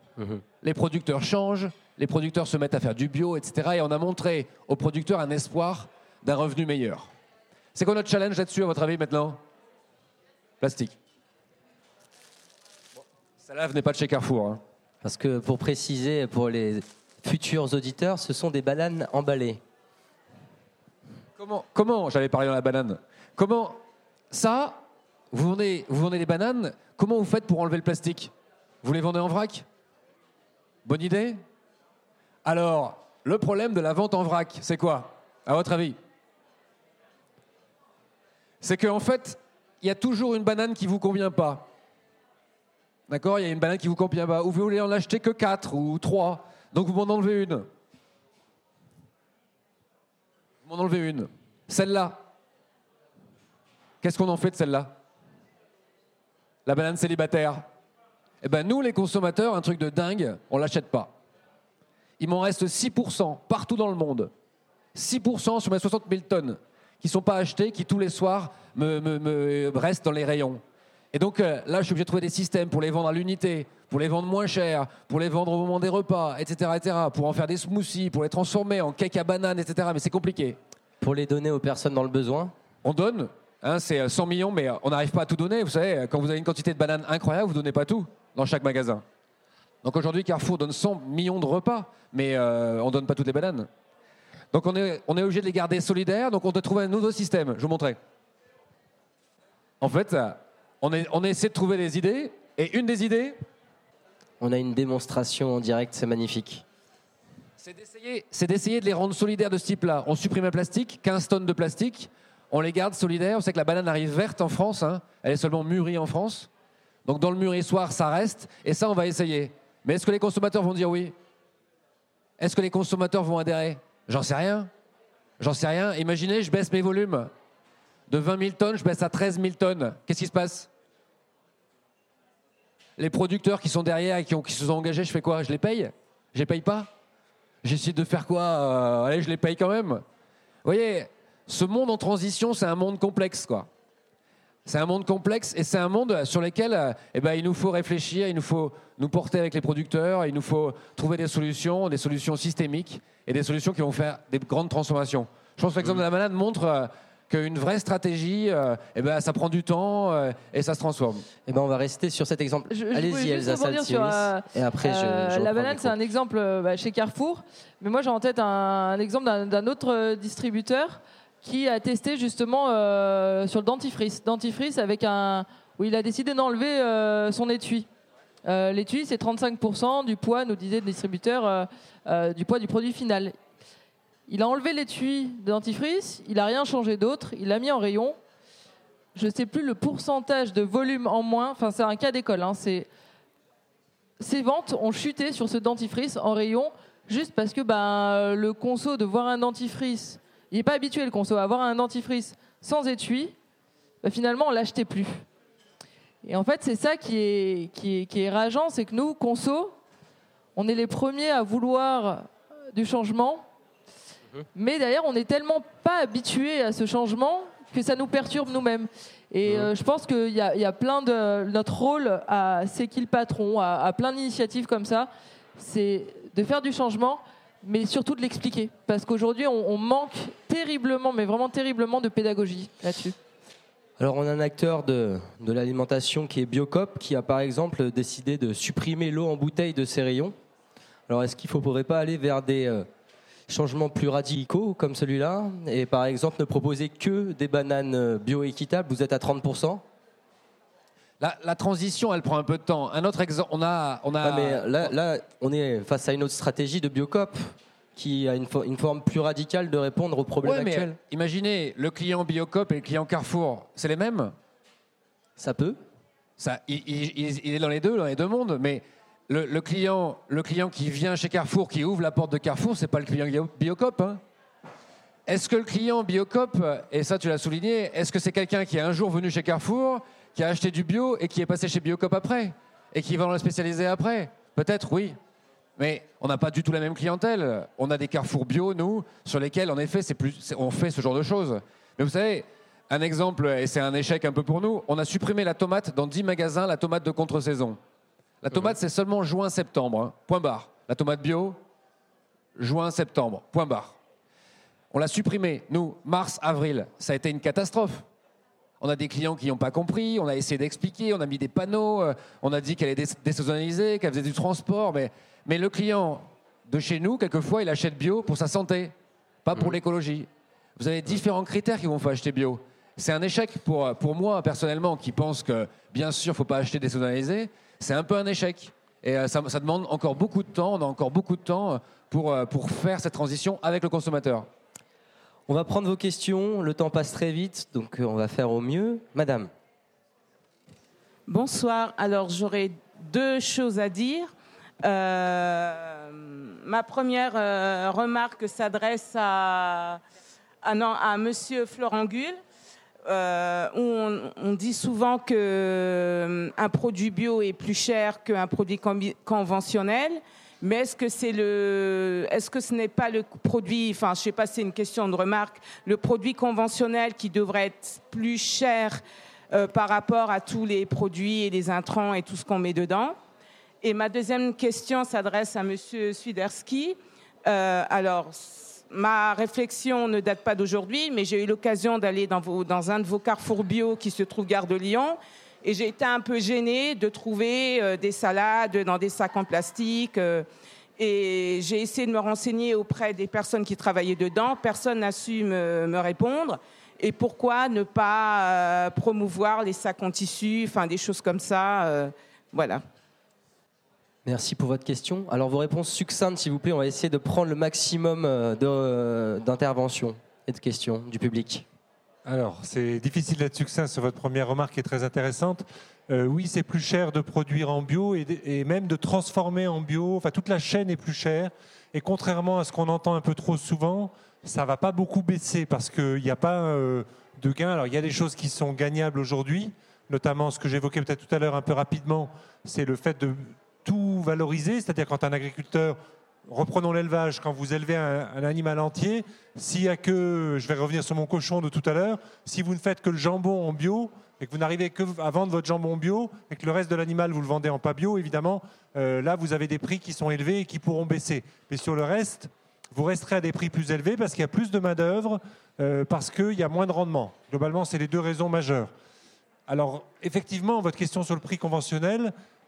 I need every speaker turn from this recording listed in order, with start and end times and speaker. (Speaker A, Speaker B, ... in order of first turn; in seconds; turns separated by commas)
Speaker A: 0.2-0.4, Speaker B: 0.6-7.1, Speaker B: 7.7-9.4, Speaker B: 10.6-10.9, Speaker B: 13.4-14.6, Speaker A: 15.0-19.6, Speaker B: 21.4-23.8, Speaker B: 24.3-28.3, Speaker B: 28.8-29.6, Speaker B: 30.8-31.4, Speaker B: 32.4-36.0, Speaker B: 38.6-41.7, Speaker B: 43.1-47.7, Speaker B: 50.6-52.2, Speaker B: 54.0-55.0, Speaker B: 56.6-57.7, Speaker B: 58.4-61.1, Speaker B: 62.2-64.3, Speaker B: 64.9-70.6, Speaker B: 71.1-80.6, Speaker A: 81.0-82.5, Speaker B: 82.8-89.0, Speaker B: 89.8-93.7, Speaker B: 94.5-98.0, Speaker B: 99.8-103.4, Speaker A: 104.4-106.6, Speaker B: 107.6-116.5, Speaker B: 117.0-121.1, Speaker B: 122.4-124.7, Speaker B: 125.4-127.3, Speaker B: 128.1-130.7, Speaker B: 133.0-136.9, Speaker B: 137.6-140.0, Speaker B: 140.6-143.7, Speaker B: 144.7-161.2, Speaker A: 161.4-165.9, Speaker C: 162.7-177.9, Speaker C: 178.4-183.3, Speaker C: 184.3-188.2, Speaker C: 189.1-192.9, Speaker C: 194.2-203.3, Speaker C: 204.0-205.2, Speaker C: 206.2-209.7, Speaker C: 210.6-213.4, Speaker C: 214.5-233.2, Speaker A: 234.0-240.3, Speaker A: 241.1-242.9, Speaker A: 243.5-249.8, Speaker B: 251.2-254.9, Speaker A: 254.2-260.9, Speaker B: 260.4-264.3, Speaker A: 265.4-265.8, Speaker B: 266.4-274.2, Speaker B: 275.3-285.2, Speaker B: 285.8-297.8, Speaker B: 298.4-301.6, Speaker B: 302.6-304.0, Speaker B: 304.9-308.1, Speaker B: 308.8-318.9, Speaker B: 319.4-334.5, Speaker A: 335.5-339.5, Speaker D: 341.3-350.0, Speaker D: 350.6-352.4, Speaker D: 353.0-369.0, Speaker D: 369.5-373.2, Speaker D: 373.8-390.4, Speaker D: 391.0-402.8, Speaker A: 404.2-411.6, Speaker E: 412.2-458.9, Speaker E: 459.7-462.3